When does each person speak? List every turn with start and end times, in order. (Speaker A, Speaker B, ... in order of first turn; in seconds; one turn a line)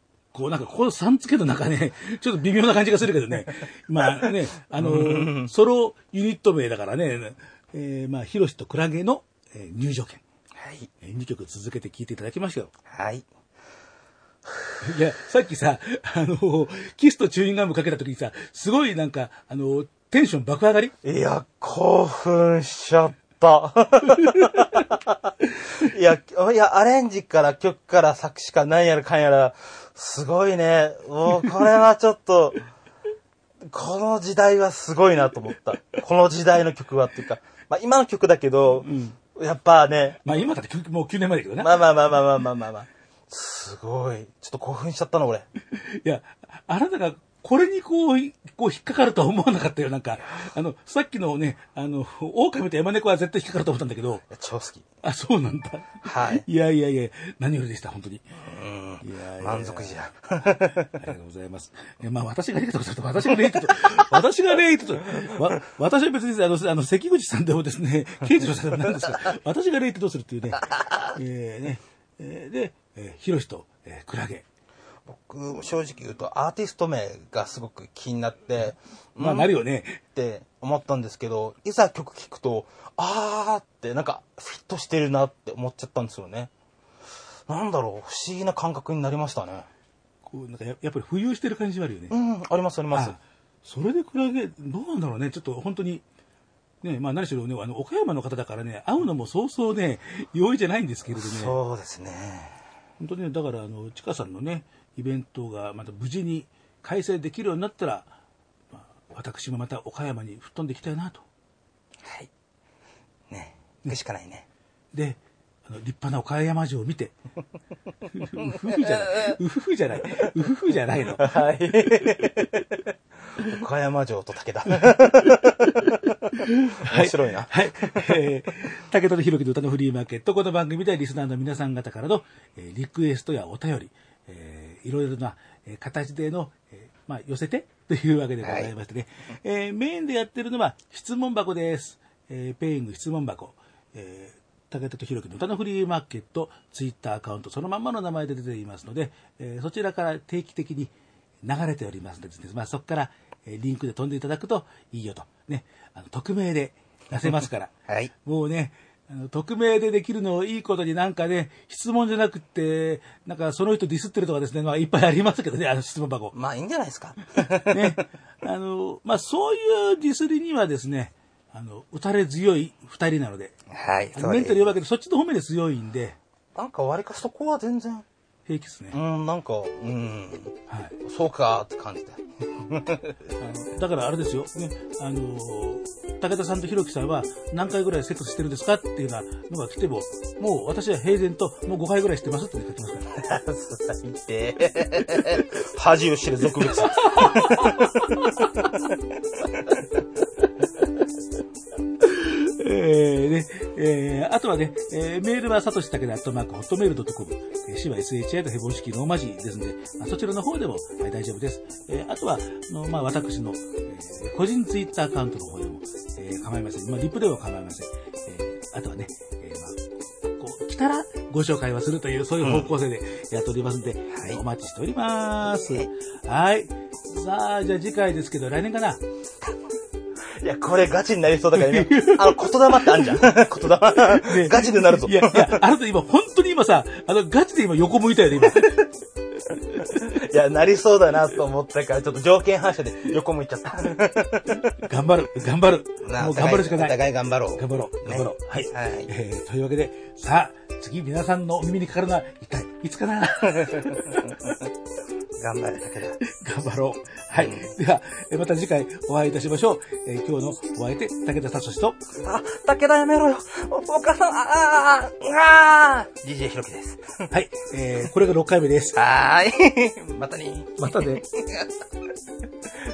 Speaker A: 0.3-10.2
Speaker B: 4.0-5.5
Speaker B: 10.5-10.9
Speaker A: 11.0-12.7
Speaker B: 12.9-13.3
Speaker B: 14.5-14.7
Speaker A: 14.8-20.9
Speaker B: 21.0-32.6
Speaker B: 33.6-40.2
Speaker A: 38.8-39.1
Speaker A: 40.2-41.9
Speaker B: 41.6-45.5
Speaker A: 45.7-54.2
Speaker B: 54.3-54.9
Speaker A: 55.0-58.2
Speaker B: 56.0-56.4
Speaker B: 58.4-60.9
Speaker A: 59.0-60.0
Speaker A: 60.9-74.4
Speaker B: 70.7-71.1
Speaker B: 75.0-86.5
Speaker A: 79.2-80.0
Speaker B: 87.5-89.7
Speaker A: 90.2-92.1
Speaker B: 92.1-93.2
Speaker A: 92.9-96.0
Speaker A: 96.8-101.5
Speaker B: 101.1-102.6
Speaker A: 103.0-108.1
Speaker A: 108.7-111.2
Speaker B: 112.0-112.3
Speaker B: 113.3-114.5
Speaker A: 114.9-117.1
Speaker A: 118.2-121.3
Speaker B: 118.4-119.4
Speaker B: 121.0-122.6
Speaker B: 123.3-125.8
Speaker A: 124.8-150.9
Speaker B: 126.9-128.2
Speaker B: 138.4-138.7
Speaker A: 151.4-166.3
Speaker B: 157.9-158.1
Speaker B: 166.3-168.0
Speaker A: 167.7-173.5
Speaker B: 173.7-174.7
Speaker A: 174.1-176.2
Speaker B: 176.5-178.0
Speaker A: 178.4-179.0
Speaker B: 178.9-183.2
Speaker A: 180.7-181.0
Speaker A: 183.4-193.1
Speaker B: 193.1-197.7
Speaker A: 197.1-197.7
Speaker A: 202.0-229.0
Speaker B: 222.4-222.7
Speaker B: 224.1-224.4
Speaker B: 230.3-235.6
Speaker A: 231.6-238.7
Speaker B: 239.9-244.7
Speaker A: 244.8-254.2
Speaker B: 246.0-249.1
Speaker B: 253.4-254.6
Speaker B: 255.3-256.2
Speaker A: 256.2-262.0
Speaker B: 257.4-257.7
Speaker B: 262.2-267.2
Speaker A: 267.3-269.0
Speaker B: 268.9-271.7
Speaker A: 270.8-271.2